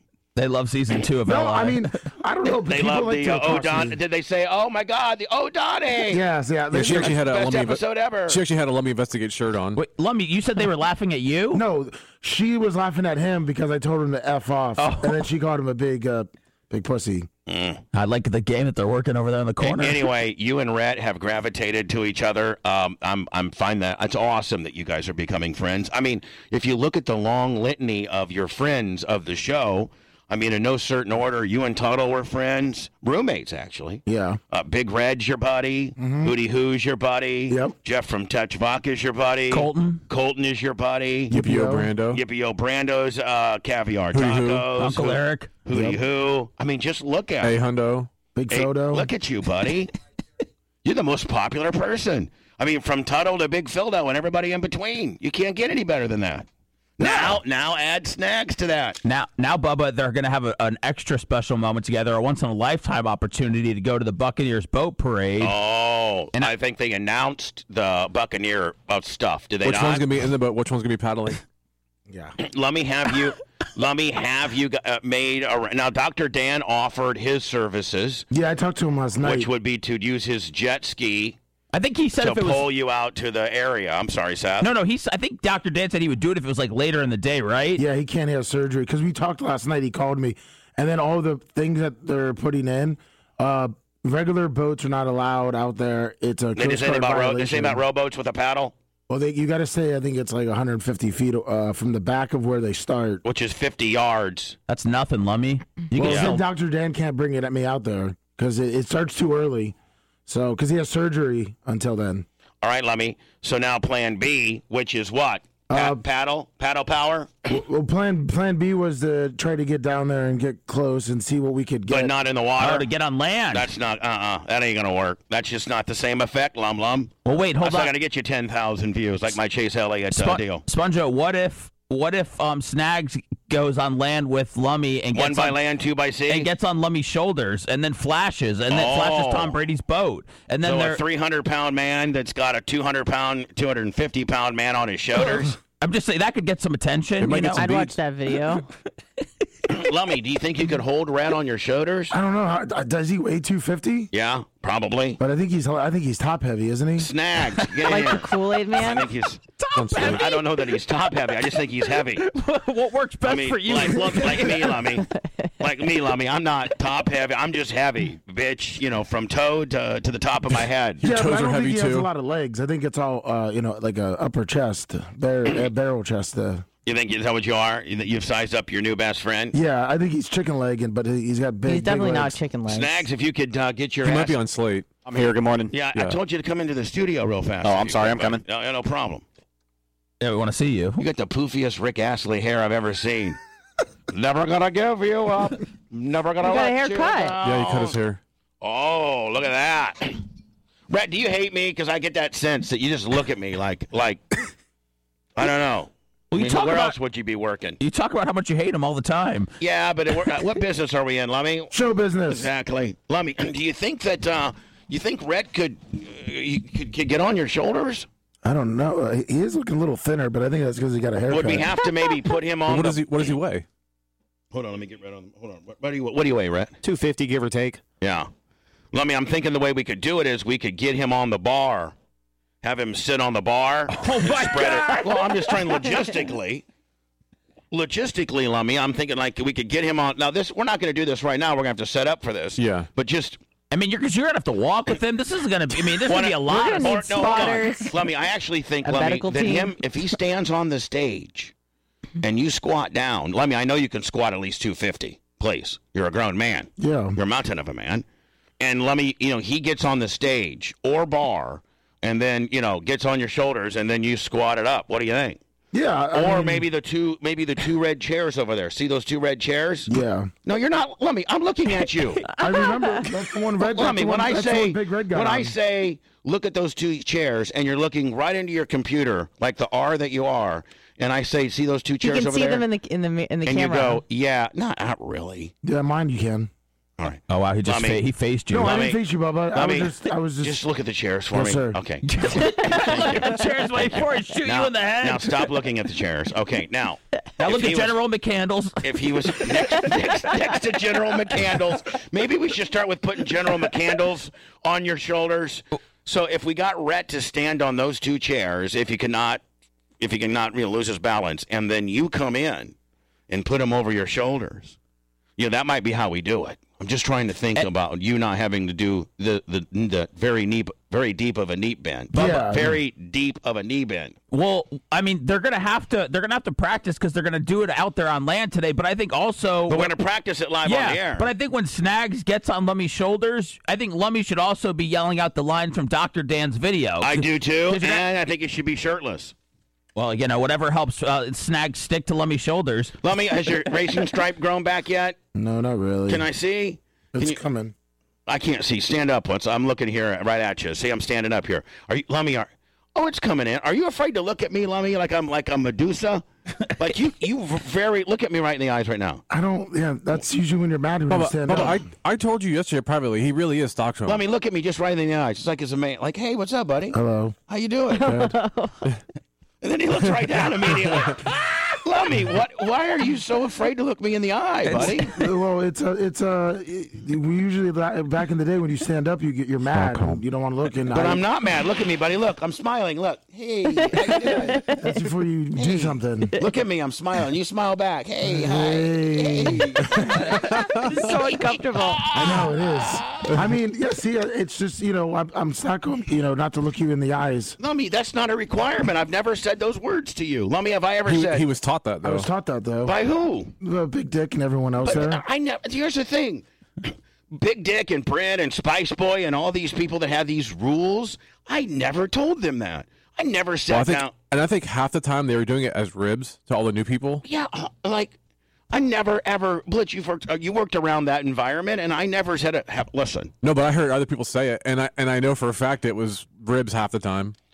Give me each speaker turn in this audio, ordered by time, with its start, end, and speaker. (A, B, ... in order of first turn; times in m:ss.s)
0:00.4-0:01.9 A
0:01.2-0:04.0 B
0:02.7-0:06.2 C
0:06.1-0:07.2 B
0:06.7-0:09.8 D
0:06.8-0:08.4 C
0:09.8-0:11.6 A
0:11.5-0:17.3 B
0:14.8-0:15.3 A
0:17.5-0:17.8 C
0:17.9-0:20.1 A
0:19.6-0:41.3 C
0:34.0-0:34.4 B
0:36.0-0:36.3 B
0:37.5-0:37.7 B
0:39.5-0:39.8 A
0:39.5-0:40.0 D
0:41.3-0:41.9 B
0:41.3-0:42.2 D
0:42.1-0:47.5 C
0:44.1-0:44.7 D
0:44.8-0:45.5 A
0:45.7-0:46.0 B
0:47.4-0:48.1 D
0:48.3-0:49.1 B
0:48.5-0:49.9 C
0:50.8-0:56.5 C
0:57.0-0:59.0 C
0:57.0-0:57.4 A
0:59.0-1:05.5 A
1:05.4-1:10.1 C
1:09.6-1:11.4 D
1:12.1-1:12.4 B
1:12.4-1:18.2 C
1:18.3-1:19.5 B
1:19.2-1:21.4 C
1:21.7-1:22.6 A
1:22.2-1:24.7 C
1:24.6-1:27.8 A
1:27.8-1:37.8 B
1:36.5-1:38.7 C
1:39.1-1:43.2 B
1:43.2-1:44.6 C
1:44.7-1:46.4 A
1:46.0-1:49.7 B
1:46.0-1:46.4 C
1:50.3-1:52.2 B
1:52.6-1:57.5 C
1:55.7-1:56.0 B
1:57.5-2:02.1 B
2:01.9-2:02.9 C
2:02.6-2:03.7 A
2:03.5-2:10.6 C
2:07.2-2:07.9 A
2:10.1-2:15.6 A
2:15.1-2:16.5 C
2:16.3-2:21.0 A
2:18.7-2:19.6 C
2:20.6-2:25.6 C
2:25.8-2:27.7 A
2:27.2-2:28.0 D
2:27.5-2:28.6 E
2:29.7-2:32.1 C
2:32.1-2:34.1 B
2:34.1-2:35.2 C
2:35.2-2:37.1 B
2:37.0-2:39.4 C
2:37.8-2:39.1 E
2:39.6-2:44.9 A
2:39.7-2:40.2 D
2:40.0-2:42.2 C
2:43.2-2:45.1 C
2:45.6-2:51.0 C
2:51.0-2:52.1 D
2:51.0-2:56.6 B
2:56.8-2:59.5 C
2:59.5-3:02.4 B
3:01.6-3:03.0 E
3:02.7-3:04.4 C
3:04.0-3:04.9 D
3:05.0-3:05.7 F
3:05.7-3:09.2 C
3:07.6-3:08.4 F
3:10.2-3:11.0 A
3:11.0-3:13.4 C
3:14.1-3:18.0 C
3:16.4-3:17.4 E
3:17.4-3:18.2 D
3:18.6-3:20.2 C
3:20.9-3:24.2 C
3:25.4-3:27.8 C
3:26.3-3:27.0 A
3:27.8-3:29.5 A
3:29.6-3:31.7 C
3:31.7-3:32.5 B
3:32.3-3:38.0 C
3:38.4-3:41.8 B
3:41.3-3:43.1 C
3:42.7-3:43.6 D
3:44.5-3:46.7 C
3:46.8-3:47.8 F
3:48.0-3:48.3 C
3:48.9-3:51.9 C
3:52.6-3:56.6 C
3:53.9-3:55.8 A
3:57.7-4:03.4 C
4:02.6-4:02.9 D
4:03.7-4:07.6 A
4:06.0-4:11.5 C
4:06.5-4:07.9 E
4:08.8-4:09.8 E
4:12.2-4:18.0 C
4:16.8-4:17.2 B
4:18.6-4:25.4 C
4:25.7-4:26.7 B
4:26.1-4:32.3 C
4:29.9-4:30.3 B
4:32.3-4:33.1 E
4:32.4-4:35.5 B
4:33.6-4:42.6 C
4:42.0-4:44.0 E
4:43.4-4:45.5 C
4:45.6-4:46.5 B
4:47.0-4:48.0 C
4:47.3-4:48.8 A
4:48.5-4:50.6 B
4:48.6-4:49.0 C
4:49.5-4:53.4 C
4:51.3-4:51.8 B
4:52.1-4:55.5 A
4:54.4-4:58.0 C
4:57.4-4:59.9 A
4:58.8-5:09.4 C
5:10.0-5:12.7 C
5:13.3-5:14.8 C
5:15.4-5:24.2 C
5:22.1-5:22.8 B
5:24.3-5:29.9 A
5:29.7-5:31.3 C
5:30.6-5:38.0 A
5:37.0-5:39.3 C
5:39.9-5:42.9 A
5:43.0-5:45.2 C
5:45.4-5:46.2 B
5:46.1-5:47.4 C
5:47.1-5:47.7 B
5:48.3-5:59.2 C
5:59.3-6:01.8 B
6:01.1-6:04.2 D
6:04.0-6:07.0 C
6:06.9-6:07.3 B
6:07.5-6:08.1 C
6:07.9-6:08.9 E
6:08.0-6:08.3 B
6:09.6-6:15.1 C
6:10.2-6:11.1 D
6:14.6-6:15.0 A
6:14.8-6:21.2 B
6:19.7-6:20.2 D
6:20.9-6:24.6 C
6:23.7-6:24.9 E
6:24.0-6:26.3 B
6:25.6-6:33.0 C
6:28.2-6:30.0 B
6:30.7-6:32.1 E
6:32.1-6:37.6 B
6:37.6-6:41.4 C
6:41.0-6:42.3 D
6:42.0-6:42.9 B
6:42.8-6:43.5 C
6:43.6-6:45.2 B
6:44.8-6:54.1 C
6:53.7-6:57.2 D
6:57.2-6:58.1 C
6:58.7-7:03.3 C
7:03.4-7:07.4 D